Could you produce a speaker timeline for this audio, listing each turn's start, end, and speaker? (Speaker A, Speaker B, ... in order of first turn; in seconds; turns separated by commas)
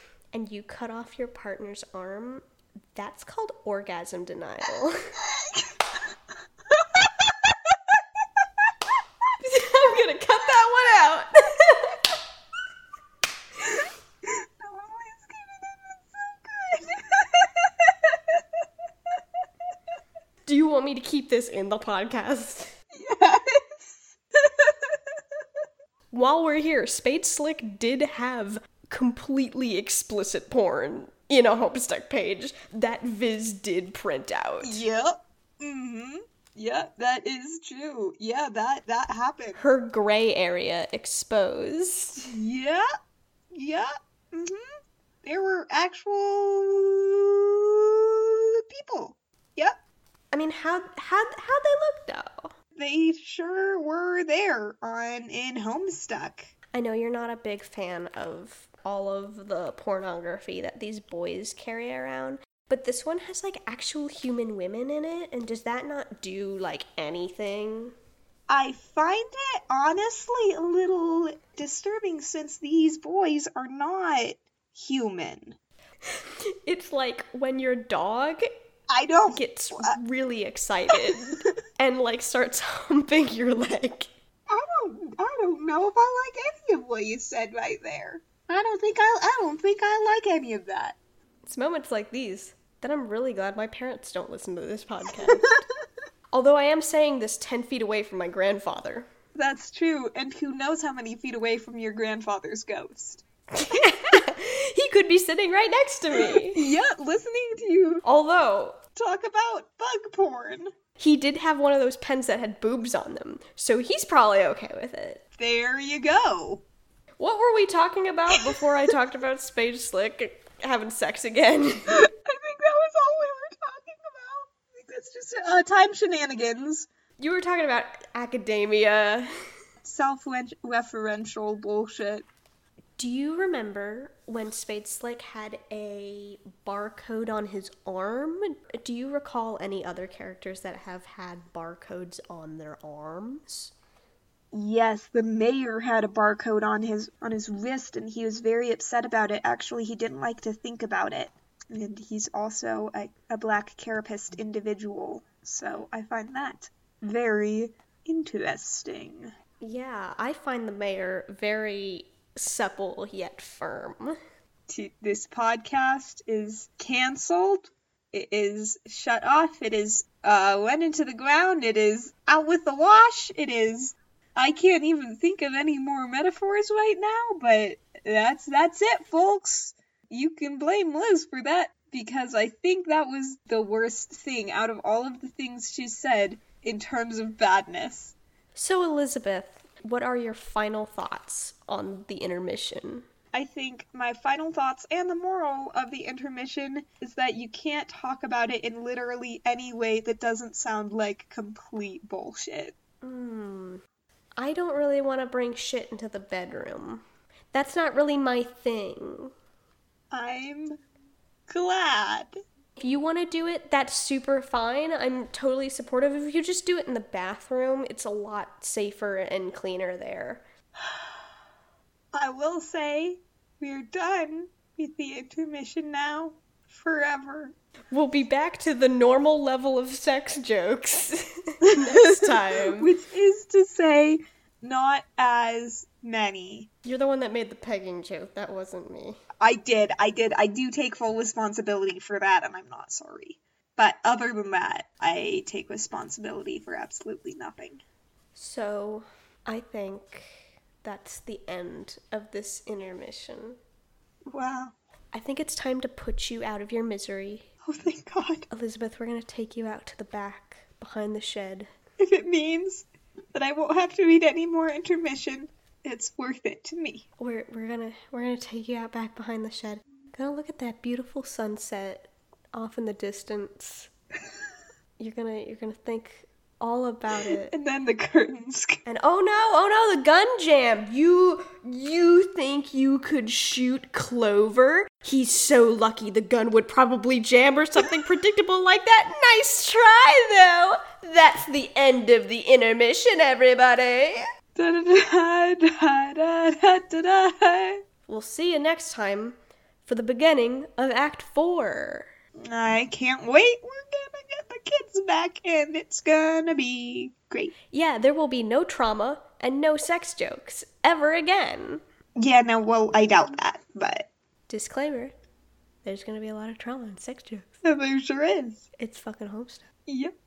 Speaker A: 0.3-5.2, Speaker B: 5.2-5.7, Speaker B: 6.7-8.7, Speaker A: 9.4-12.2, Speaker B: 13.6-18.6, Speaker A: 20.5-22.7, Speaker B: 22.9-25.2, Speaker A: 26.1-34.8, Speaker B: 34.6-39.6, Speaker A: 39.6-42.3, Speaker B: 42.3-42.9, Speaker B: 43.5-44.6, Speaker B: 45.2-49.8, Speaker A: 50.3-52.5, Speaker B: 52.8-56.5, Speaker A: 56.7-67.9, Speaker B: 68.5-75.6, Speaker A: 76.7-78.4, Speaker B: 78.9-80.0, Speaker A: 79.3-84.1, Speaker B: 84.5-91.0, Speaker A: 91.5-95.6, Speaker B: 95.2-95.6, Speaker A: 96.3-99.1, Speaker B: 99.3-103.2, Speaker A: 103.5-106.6, Speaker B: 106.2-108.0, Speaker A: 108.0-108.8, Speaker B: 109.0-110.7, Speaker A: 111.0-115.2, Speaker B: 115.4-116.7, Speaker A: 117.2-122.0, Speaker B: 121.9-126.9, Speaker A: 127.2-129.3, Speaker B: 129.8-132.3, Speaker A: 133.0-143.7, Speaker B: 144.5-159.3, Speaker A: 159.6-164.1, Speaker B: 164.7-188.2, Speaker A: 188.6-193.1, Speaker B: 193.3-202.8, Speaker A: 203.0-203.8, Speaker A: 204.4-209.3, Speaker B: 210.1-210.8, Speaker B: 211.5-212.4, Speaker A: 212.8-220.4, Speaker B: 222.1-227.6, Speaker A: 227.9-232.9, Speaker B: 231.6-236.7, Speaker A: 236.8-239.2, Speaker B: 239.4-247.8, Speaker A: 248.4-253.6, Speaker B: 254.3-254.8, Speaker A: 255.1-257.5, Speaker B: 257.6-258.5, Speaker A: 258.5-261.7, Speaker B: 262.0-267.1, Speaker A: 267.2-273.9, Speaker A: 275.0-277.6, Speaker B: 277.3-278.8, Speaker A: 278.9-294.3, Speaker B: 294.6-297.8, Speaker A: 298.1-302.1, Speaker B: 302.4-307.6, Speaker A: 307.7-311.8, Speaker B: 312.2-314.1, Speaker A: 314.5-315.2, Speaker A: 315.8-317.5, Speaker B: 317.6-318.7, Speaker A: 318.8-319.6, Speaker B: 319.9-320.1